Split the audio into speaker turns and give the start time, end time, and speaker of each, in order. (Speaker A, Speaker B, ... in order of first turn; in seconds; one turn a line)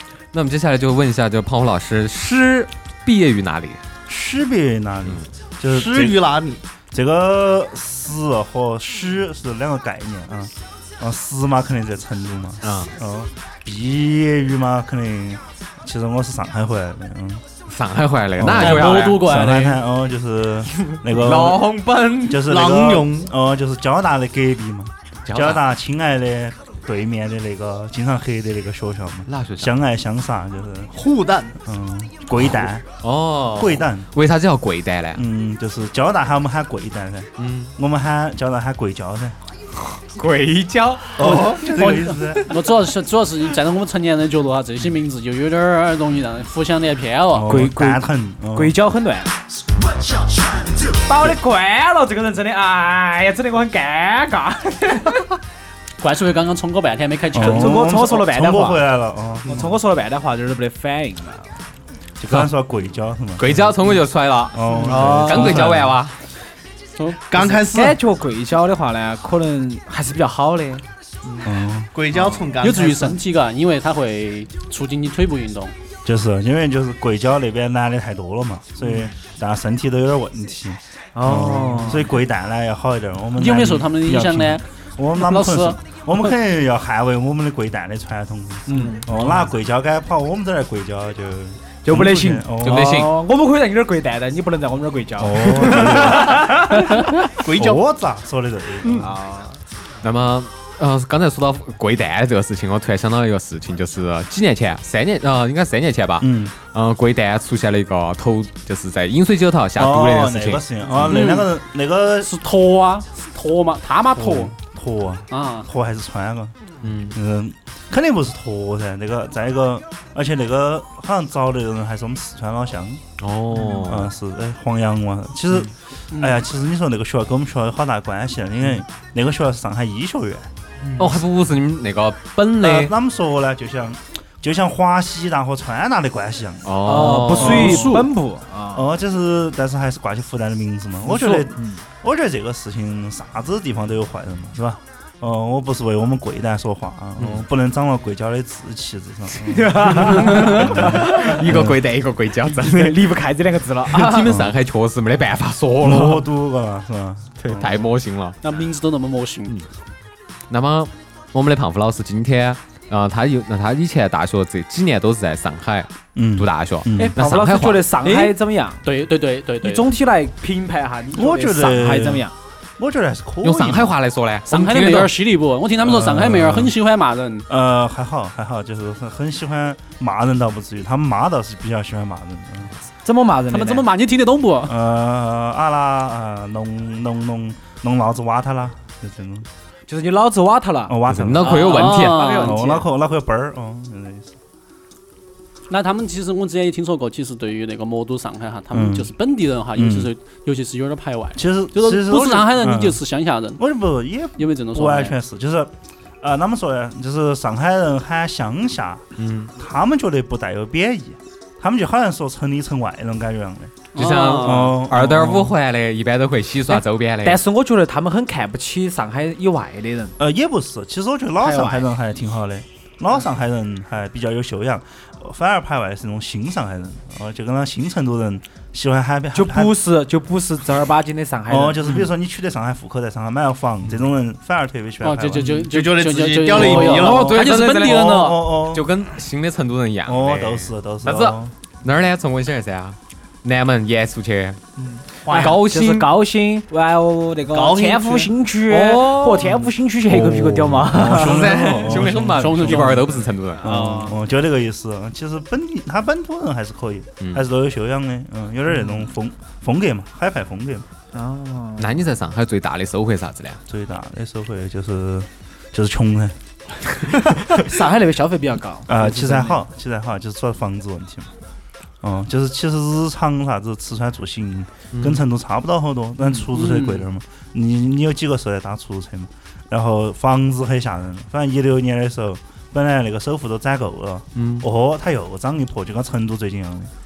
Speaker A: 0.3-3.8
Speaker B: 4.1-6.2
Speaker C: 5.6-6.6
Speaker B: 6.9-17.4
Speaker A: 12.6-12.9
Speaker A: 17.7-19.2
Speaker B: 18.4-21.6
Speaker D: 18.6-19.8
Speaker A: 20.8-22.5
Speaker B: 22.3-30.9
Speaker C: 22.4-23.3
Speaker A: 25.3-25.6
Speaker A: 29.3-29.7
Speaker C: 30.9-31.6
Speaker B: 31.6-32.8
Speaker A: 33.0-35.2
Speaker B: 33.5-34.1
Speaker B: 35.1-39.4
Speaker A: 37.4-37.7
Speaker A: 40.1-41.5
Speaker B: 41.2-42.5
Speaker D: 41.2-47.5
Speaker B: 47.3-48.7
Speaker E: 47.5-48.0
Speaker E: 48.5-49.3
Speaker E: 50.9-55.3
Speaker D: 56.0-57.9
Speaker B: 57.3-59.7
Speaker E: 57.4-58.9
Speaker E: 59.5-61.5
Speaker B: 62.2-64.0
Speaker A: 63.4-66.1
Speaker B: 64.5-66.0
Speaker E: 64.8-65.7
Speaker D: 67.0-67.2
Speaker C: 67.3-68.0
Speaker E: 67.4-70.8
Speaker B: 71.4-71.9
Speaker C: 71.9-73.2
Speaker D: 72.6-75.7
Speaker B: 76.0-93.0
Speaker E: 81.1-82.1
Speaker D: 83.4-85.8
Speaker E: 88.7-89.4
Speaker E: 91.8-97.1
Speaker A: 92.6-93.1
Speaker B: 95.2-96.5
Speaker C: 97.4-97.8
Speaker B: 97.5-99.1
Speaker E: 98.8-99.6
Speaker A: 100.0-111.1
Speaker B: 106.2-106.5
Speaker B: 109.8-112.3
Speaker D: 111.0-111.5
Speaker D: 112.2-114.5
Speaker B: 114.1-116.5
Speaker D: 115.3-115.7
Speaker A: 116.8-117.2
Speaker B: 117.1-123.0
Speaker A: 123.2-124.1
Speaker B: 123.8-130.5
Speaker D: 126.1-126.4
Speaker A: 131.0-132.9
Speaker B: 132.6-136.8
Speaker A: 136.6-138.0
Speaker E: 136.8-138.8
Speaker B: 137.3-137.9
Speaker D: 137.4-138.1
Speaker B: 138.7-151.8
Speaker E: 141.1-141.8
Speaker A: 147.2-147.4
Speaker E: 149.4-151.4
Speaker A: 150.2-153.1
Speaker E: 152.4-154.3
Speaker A: 153.9-156.2
Speaker B: 154.3-154.6
Speaker B: 155.8-157.9
Speaker A: 157.4-158.4
Speaker D: 158.4-159.5
Speaker A: 160.5-167.9
Speaker B: 166.1-167.1
Speaker E: 166.9-168.8
Speaker D: 168.0-169.9
Speaker E: 169.6-172.3
Speaker B: 171.1-173.9
Speaker A: 173.4-175.1
Speaker D: 174.5-177.5
Speaker B: 175.8-176.7
Speaker B: 177.5-182.7
Speaker E: 183.0-183.9
Speaker D: 183.5-184.7
Speaker B: 184.7-189.5
Speaker E: 189.9-192.8
Speaker B: 190.9-191.6
Speaker A: 191.1-192.4
Speaker D: 191.5-192.6
Speaker B: 192.4-194.3
Speaker D: 195.7-203.6
Speaker B: 198.7-199.1
Speaker B: 199.7-200.1
Speaker B: 201.4-203.0
Speaker B: 203.6-209.0
Speaker D: 204.4-205.1
Speaker A: 209.2-209.5
Speaker B: 209.6-215.6
Speaker D: 213.9-214.7
Speaker A: 213.9-217.4
Speaker E: 216.7-220.1
Speaker B: 220.2-229.8
Speaker E: 221.4-221.8
Speaker E: 229.3-231.8
Speaker B: 231.5-235.5
Speaker D: 235.0-238.4
Speaker C: 235.6-237.3
Speaker A: 236.5-244.6
Speaker E: 237.2-237.9
Speaker B: 237.2-238.9
Speaker B: 240.1-241.5
Speaker C: 244.8-245.6
Speaker A: 245.3-246.1
Speaker E: 245.3-251.6
Speaker C: 247.5-248.3
Speaker A: 248.7-249.6
Speaker B: 250.1-253.1
Speaker A: 250.8-253.6
Speaker D: 252.3-253.2
Speaker E: 253.6-254.2
Speaker B: 253.6-260.9
Speaker A: 257.2-257.4
Speaker E: 261.1-261.9
Speaker A: 261.8-263.6
Speaker B: 263.7-266.4
Speaker E: 267.5-269.6
Speaker B: 268.9-271.3
Speaker B: 272.0-286.9
Speaker A: 274.9-275.2
Speaker D: 276.5-277.0
Speaker A: 284.3-284.7